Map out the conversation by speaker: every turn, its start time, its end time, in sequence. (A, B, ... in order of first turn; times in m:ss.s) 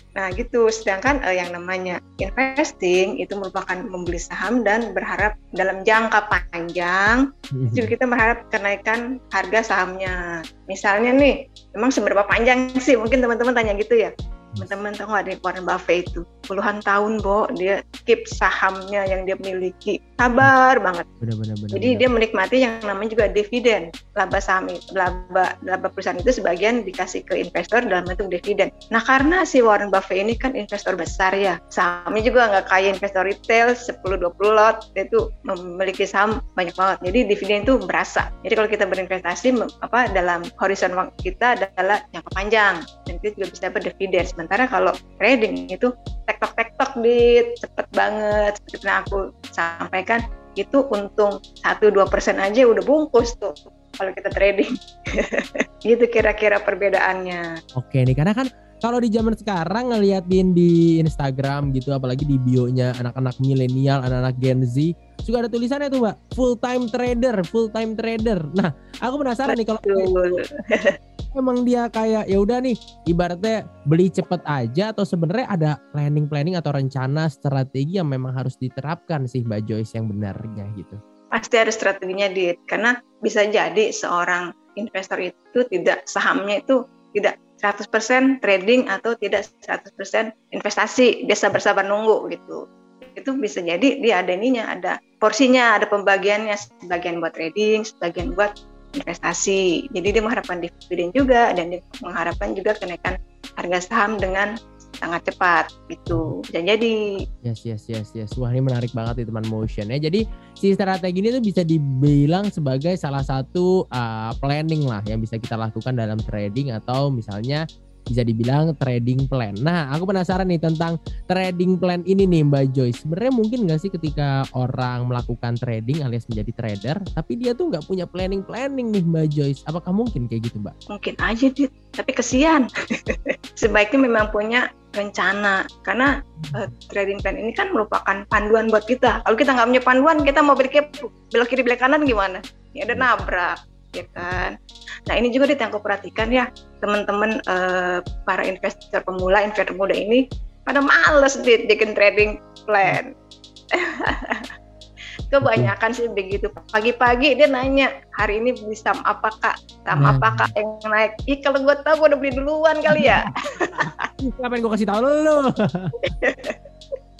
0:00.2-0:10.1 A
0:07.5-0:07.9 B
0:10.7-0:21.0 A
0:21.2-0:22.0 B
0:21.7-0:57.4 A
0:57.8-1:10.4 B
1:09.5-1:10.9 A
1:11.3-1:21.0 B
1:21.4-1:44.5 A
1:45.0-1:46.9 A
1:47.4-2:10.7 B
2:10.9-2:24.5 A
2:16.4-2:16.6 B
2:25.1-2:33.1 A
2:33.8-2:34.4 A
2:35.3-2:44.0 A
2:35.4-2:35.7 B
2:40.0-2:40.5 B
2:42.9-2:43.2 B
2:44.2-2:45.9 B
2:46.2-2:46.6 A